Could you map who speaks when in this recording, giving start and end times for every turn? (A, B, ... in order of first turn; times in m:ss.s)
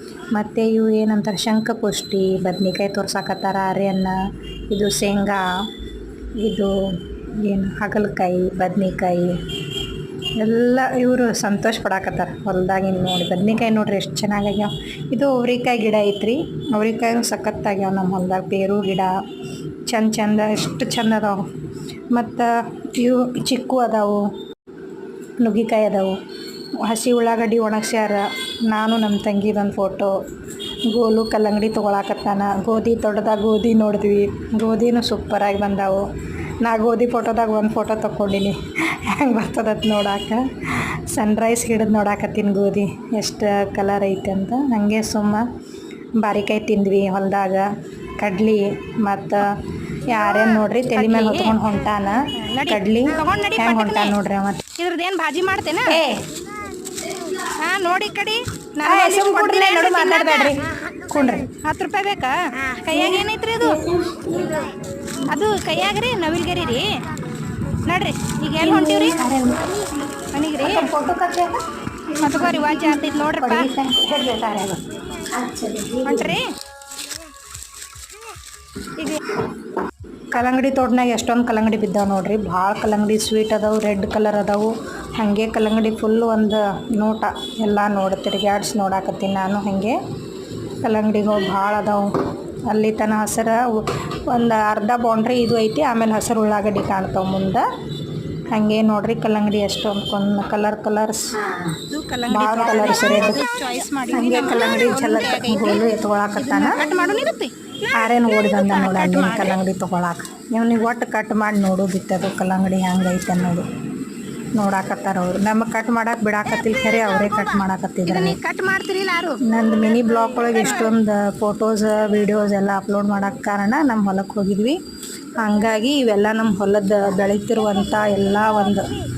0:00.3-0:04.2 A
0:04.7-0:05.4 A
0:06.4-0:06.7 A
0:07.4-0:09.4 A
0:10.4-0:19.1 A
0:19.9-0:21.4 A
0:22.1-0:24.3 A
0:25.4-0:26.2 A
0:26.8-0:30.2 A
0:30.9-0:36.1 A
0:36.6-0:45.5 A
0:46.2-0:47.7 A
0:48.2-0:49.5 A
0:50.0-0:54.7 A
0:50.3-0:51.6 B
0:52.4-0:54.2 B
0:54.8-0:56.0 B
0:55.9-0:56.3 A
0:57.5-1:00.7 B
0:58.8-1:01.5 A
1:01.5-1:03.9 B
1:03.0-1:04.7 A
1:05.2-1:07.1 B
1:07.8-1:09.3 B
1:08.6-1:09.8 A
1:10.3-1:10.9 B
1:10.6-1:16.4 A
1:12.2-1:13.7 B
1:16.0-1:16.5 B
1:20.3-1:30.0 A
1:30.8-1:32.1 A
1:32.7-1:33.7 A
1:34.3-1:37.7 A
1:38.5-1:41.7 A
1:41.9-1:49.6 B
1:42.3-1:43.4 A
1:44.1-1:46.8 A
1:47.9-1:53.7 A
1:54.6-1:58.4 A
1:58.1-1:59.5 B
1:59.4-2:04.8 A
2:00.1-2:00.9 B
2:05.4-2:09.0 A